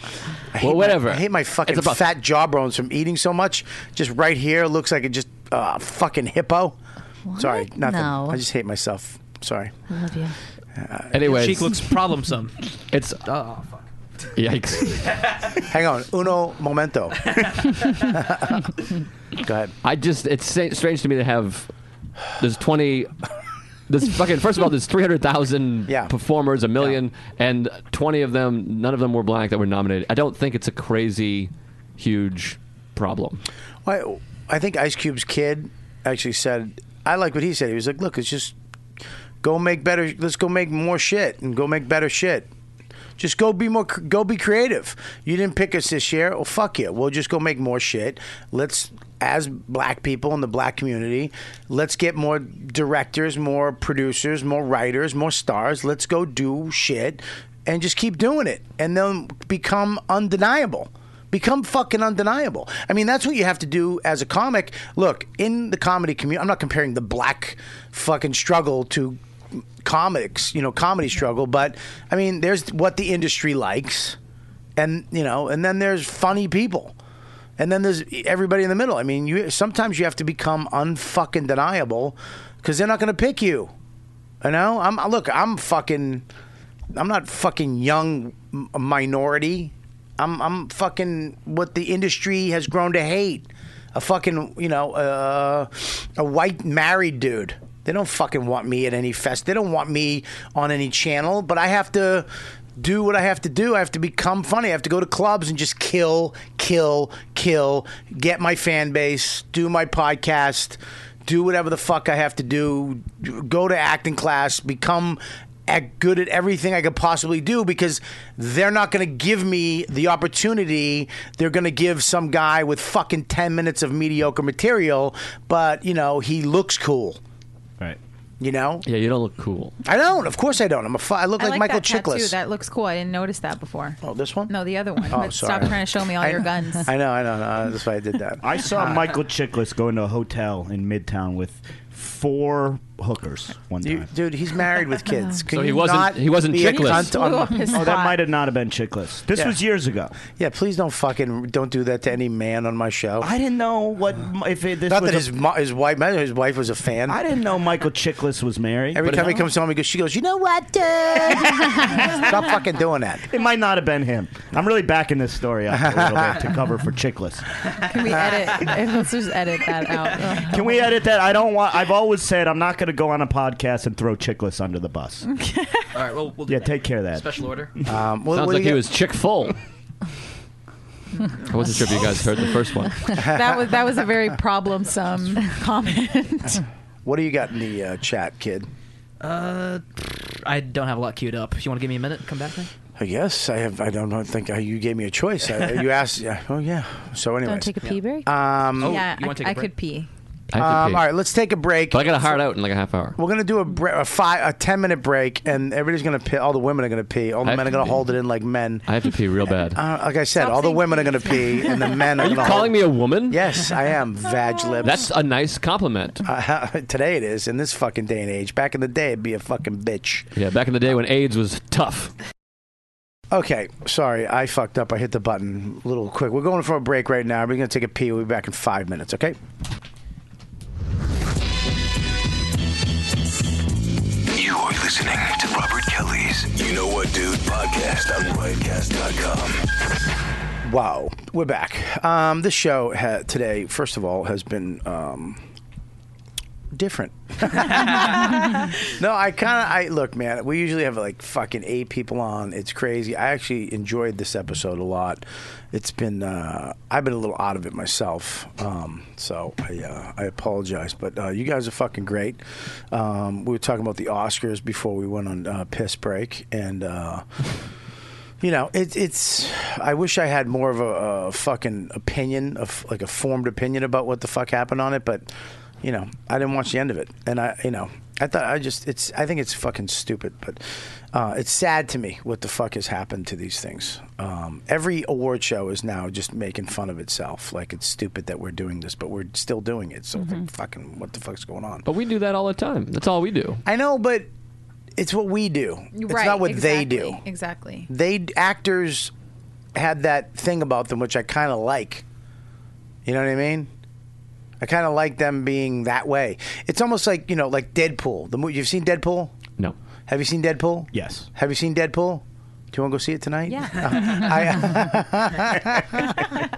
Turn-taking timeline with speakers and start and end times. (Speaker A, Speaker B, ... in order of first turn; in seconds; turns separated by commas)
Speaker A: 0.5-6.8, Speaker B: 0.6-2.0, Speaker C: 7.3-8.4, Speaker A: 7.4-9.8, Speaker C: 9.9-10.3, Speaker A: 10.8-11.2, Speaker B: 11.1-11.7, Speaker D: 11.2-12.7, Speaker B: 12.9-13.2, Speaker D: 13.2-13.9, Speaker B: 14.4-15.2, Speaker A: 15.6-17.3, Speaker A: 18.1-18.6, Speaker A: 19.4-19.7, Speaker B: 19.8-21.7, Speaker B: 22.4-23.1, Speaker B: 23.9-33.4, Speaker A: 33.9-38.5, Speaker A: 39.4-42.5, Speaker A: 43.2-69.2, Speaker A: 69.8-74.2, Speaker A: 74.8-77.0, Speaker A: 77.6-83.7, Speaker A: 84.4-86.2, Speaker A: 86.9-127.2, Speaker A: 128.4-128.8, Speaker B: 128.8-129.7, Speaker A: 129.8-132.4, Speaker E: 131.4-136.9, Speaker A: 134.0-134.5, Speaker A: 135.1-139.0, Speaker F: 138.4-144.1, Speaker A: 143.8-147.9, Speaker B: 145.5-147.1, Speaker E: 146.8-148.2, Speaker F: 147.7-150.2, Speaker A: 150.3-153.3, Speaker F: 153.2-155.3, Speaker A: 154.9-157.2, Speaker F: 157.1-159.4, Speaker A: 158.9-163.3, Speaker F: 163.3-167.6, Speaker A: 165.7-166.4, Speaker E: 167.8-170.8, Speaker F: 170.4-175.2, Speaker E: 175.2-175.9, Speaker D: 175.9-177.7, Speaker F: 176.5-177.3, Speaker A: 177.9-178.8, Speaker B: 178.3-179.6, Speaker B: 181.5-183.2, Speaker E: 183.2-186.6, Speaker A: 183.2-183.5, Speaker A: 187.1-188.7, Speaker D: 189.2-192.7, Speaker A: 193.0-199.0, Speaker C: 197.4-198.3, Speaker D: 198.8-199.7, Speaker E: 198.8-200.1, Speaker B: 200.5-201.1, Speaker A: 200.6-202.4, Speaker B: 201.9-203.2, Speaker A: 203.2-208.9, Speaker B: 207.4-208.0, Speaker B: 208.9-209.8, Speaker A: 209.7-215.1, Speaker E: 210.4-212.5, Speaker B: 212.2-213.4, Speaker B: 214.8-216.2, Speaker A: 216.2-220.3, Speaker B: 220.3-222.1, Speaker A: 223.3-229.4, Speaker G: 234.3-239.7, Speaker A: 240.6-245.4, Speaker A: 246.7-267.2, Speaker A: 268.4-275.3, Speaker A: 275.8-291.9, Speaker B: 291.9-293.6, Speaker A: 293.6-294.3, Speaker A: 295.0-297.2, Speaker E: 295.9-297.9, Speaker A: 297.9-299.1, Speaker A: 299.8-302.0, Speaker A: 303.1-303.7, Speaker A: 304.6-309.3, Speaker A: 310.1-316.2, Speaker F: 310.9-311.3, Speaker E: 313.5-313.9